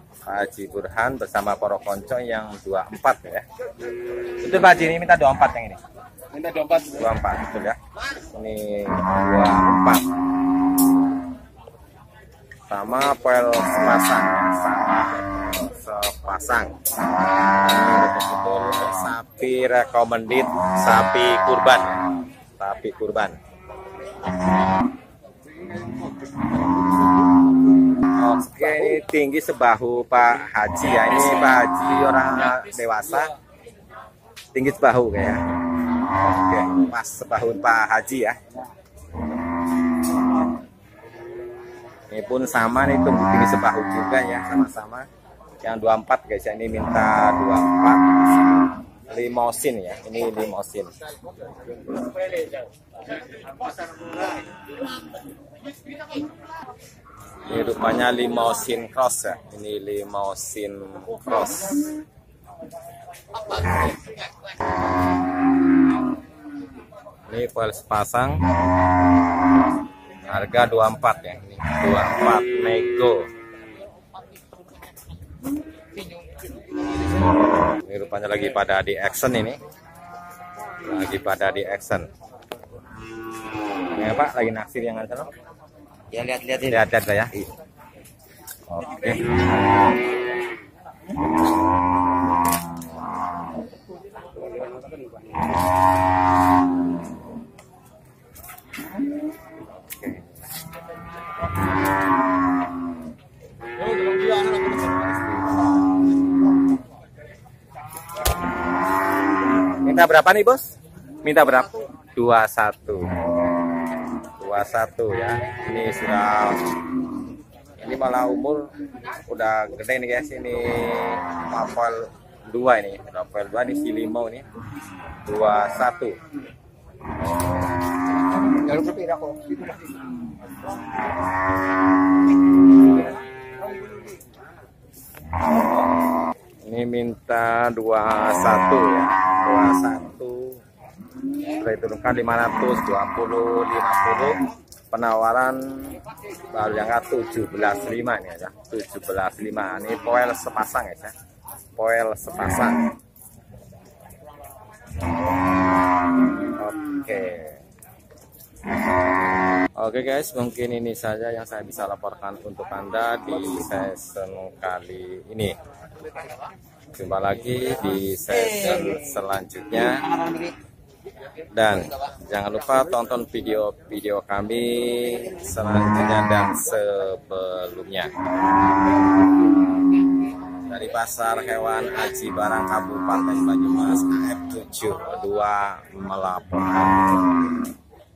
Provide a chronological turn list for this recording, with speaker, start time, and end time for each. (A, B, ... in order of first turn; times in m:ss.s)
0:00.2-0:03.4 A
0:04.4-0:05.8 A
0:06.3-0:06.9 B
0:06.9-0:07.8 A
0:08.3-0:10.1 A
0:12.7-0:16.8 A
0:17.6-0:22.0 A
0:22.6-0:23.4 A
0:28.2-0:33.3 A
0:34.5-0:35.4 A
0:36.1-0:38.4 A
0:42.1-0:45.0 A
0:45.6-0:48.1 A
0:49.1-0:50.9 A
0:57.5-1:01.9 A
1:07.3-1:08.4 A
1:10.3-1:13.3 A
1:17.6-1:19.6 A
1:20.8-1:22.1 A
1:23.9-1:25.3 A
1:26.1-1:26.7 B
1:26.6-1:27.4 A
1:28.7-1:29.4 A
1:34.3-1:35.5 B
1:39.8-1:40.2 A
1:49.8-1:50.7 A
1:51.2-1:53.1 A
1:54.4-1:56.7 A
1:57.8-1:58.6 A
1:59.3-2:04.4 A
2:05.2-2:06.2 A
2:08.6-2:09.8 B
2:16.6-2:20.6 A
2:21.5-2:31.1 A
2:31.8-2:32.9 A
2:36.5-2:37.6 A
2:39.8-2:45.6 A
2:46.9-2:50.2 A
2:51.5-2:58.1 A
3:00.7-3:07.5 A